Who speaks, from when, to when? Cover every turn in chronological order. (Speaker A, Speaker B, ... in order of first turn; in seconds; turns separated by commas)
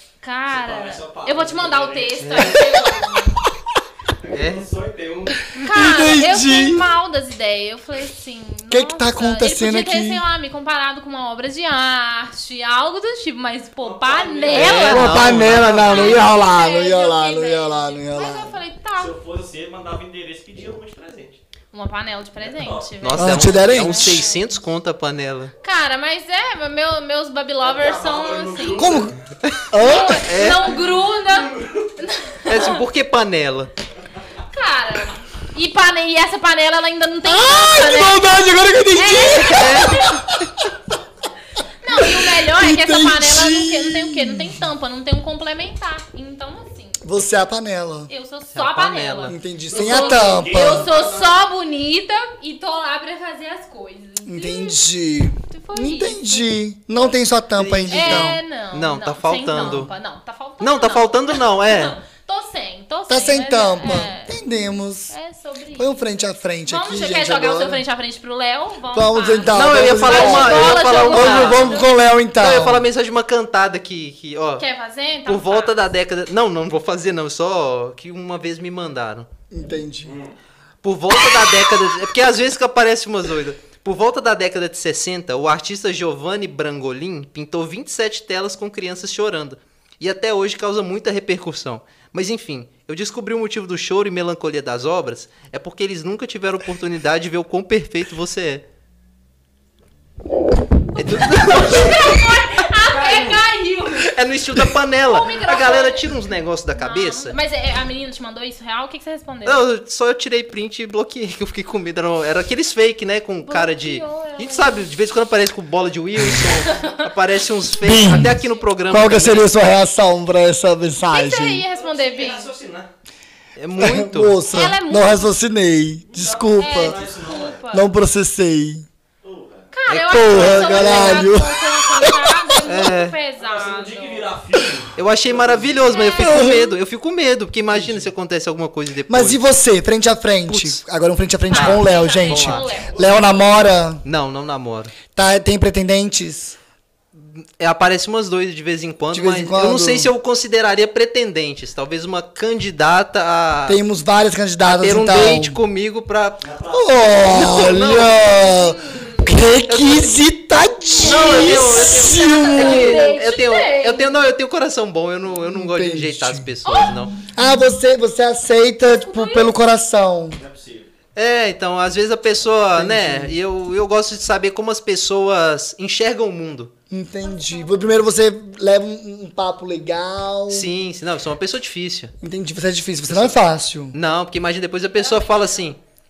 Speaker A: 0.2-3.4, Speaker B: 0.5-2.6, Speaker C: 2.2-2.5, Speaker B: 4.2-5.4, Speaker C: 4.3-4.7, Speaker A: 5.5-19.1, Speaker D: 5.6-6.9, Speaker D: 8.7-10.2, Speaker B: 13.8-15.0, Speaker C: 14.5-16.3, Speaker D: 14.6-18.6, Speaker B: 18.9-21.4, Speaker A: 21.7-24.4, Speaker B: 22.4-22.9, Speaker C: 23.0-25.5, Speaker D: 23.2-24.3, Speaker A: 25.6-29.1, Speaker B: 27.6-29.1, Speaker D: 28.8-29.2, Speaker C: 29.5-30.7, Speaker D: 29.7-30.2, Speaker A: 29.8-32.8, Speaker B: 31.2-31.9, Speaker C: 32.5-33.7, Speaker A: 34.5-38.3, Speaker D: 37.2-40.7, Speaker A: 38.9-40.1, Speaker C: 39.4-40.2, Speaker A: 41.8-47.0, Speaker D: 41.9-44.6, Speaker D: 47.0-48.1, Speaker A: 48.1-54.8, Speaker C: 48.5-49.4, Speaker D: 49.3-50.9, Speaker B: 49.7-51.4, Speaker D: 54.2-58.4, Speaker A: 55.5-56.5, Speaker C: 57.6-59.9, Speaker A: 57.9-64.4, Speaker C: 60.6-62.0, Speaker D: 63.1-65.1, Speaker A: 65.1-66.0, Speaker D: 65.8-67.8, Speaker A: 66.7-71.9, Speaker D: 68.9-72.8, Speaker C: 69.5-71.8, Speaker C: 72.4-74.6, Speaker A: 74.6-75.8, Speaker C: 75.3-79.3, Speaker D: 79.5-80.1, Speaker B: 80.1-80.3, Speaker C: 80.8-98.6, Speaker C: 101.0-102.2, Speaker A: 101.2-104.1, Speaker B: 102.8-103.4, Speaker C: 104.0-107.4, Speaker A: 105.1-106.0, Speaker A: 106.8-109.6, Speaker C: 109.5-119.5, Speaker A: 113.5-114.9, Speaker A: 116.6-117.0, Speaker D: 117.8-121.6, Speaker A: 121.1-122.5, Speaker B: 121.7-122.9, Speaker C: 123.6-124.4, Speaker D: 123.8-127.0, Speaker A: 124.5-125.3, Speaker B: 126.1-127.6, Speaker A: 126.6-127.9, Speaker D: 127.7-128.9, Speaker B: 129.2-129.7, Speaker A: 129.7-134.3, Speaker C: 129.9-131.3, Speaker D: 130.1-132.5, Speaker C: 132.7-133.2, Speaker B: 133.4-136.0, Speaker C: 135.0-139.4, Speaker A: 135.9-136.8, Speaker D: 136.2-136.6, Speaker D: 139.1-144.0, Speaker C: 140.5-140.8, Speaker A: 141.5-143.2, Speaker C: 141.5-142.7, Speaker B: 142.9-143.3, Speaker C: 144.0-144.9, Speaker D: 145.2-146.6, Speaker C: 147.2-153.8, Speaker D: 149.1-150.1, Speaker D: 153.7-155.6, Speaker C: 154.7-156.4, Speaker B: 156.4-157.7, Speaker D: 156.7-163.1, Speaker C: 157.3-158.4, Speaker A: 158.5-159.2, Speaker C: 159.7-160.2, Speaker A: 160.9-164.2, Speaker C: 161.0-167.2, Speaker D: 165.4-166.5, Speaker A: 166.7-167.1, Speaker D: 167.2-170.4, Speaker A: 168.9-169.5, Speaker B: 170.3-170.9, Speaker C: 171.2-176.7, Speaker D: 172.8-173.3, Speaker D: 176.9-180.7, Speaker C: 180.5-182.1, Speaker D: 182.2-184.0, Speaker C: 183.1-183.3, Speaker C: 183.9-185.8, Speaker A: 185.0-185.5